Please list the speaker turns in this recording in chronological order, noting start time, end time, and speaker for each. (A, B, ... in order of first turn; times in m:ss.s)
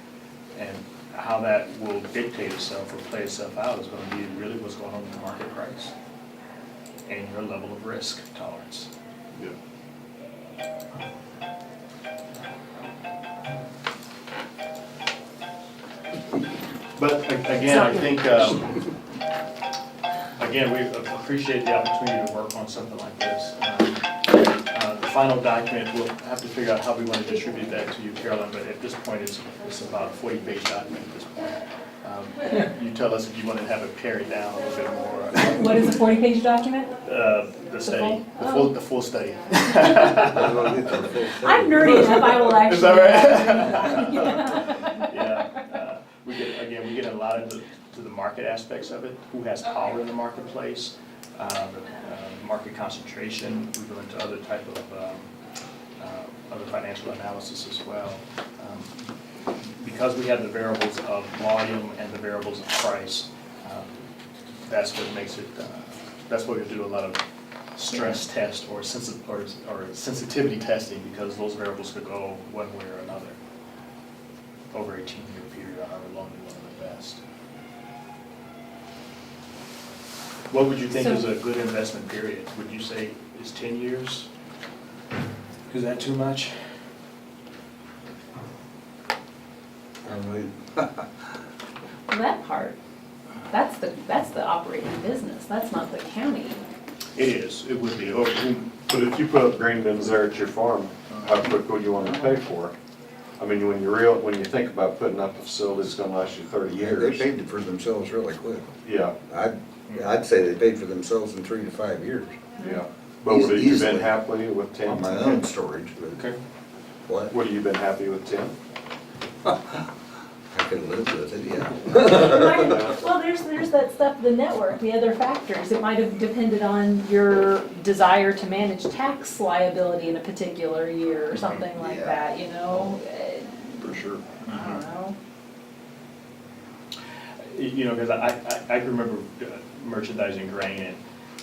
0:00.6-0:05.9 A
0:07.1-0:08.9 A
0:17.0-0:18.9 A
0:20.4-0:36.0 A
0:35.4-0:36.9 B
0:37.0-0:41.0 A
0:37.8-0:38.7 B
0:40.2-0:42.1 C
0:41.4-0:45.6 B
0:41.8-0:55.3 A
0:56.0-1:04.0 A
1:04.6-1:07.2 A
1:07.8-1:13.4 A
1:14.7-1:17.2 A
1:20.5-1:24.3 A
1:21.0-1:21.2 B
1:25.7-1:26.5 A
1:30.0-1:31.1 C
1:32.1-1:32.8 B
1:33.5-1:36.6 B
1:37.2-1:38.7 A
1:38.9-1:42.7 D
1:43.4-1:47.3 D
1:46.7-1:48.8 C
1:48.8-1:49.2 D
1:49.3-1:52.4 C
1:52.6-1:52.8 B
1:52.6-1:55.4 D
1:53.3-1:54.2 C
1:54.8-1:56.3 C
1:57.1-1:57.4 C
1:57.3-1:58.5 D
1:59.4-1:59.9 C
2:00.5-2:02.8 C
2:01.9-2:15.2 B
2:02.5-2:03.0 D
2:11.4-2:12.2 D
2:13.8-2:14.2 D
2:14.5-2:14.8 A
2:17.4-2:21.0 A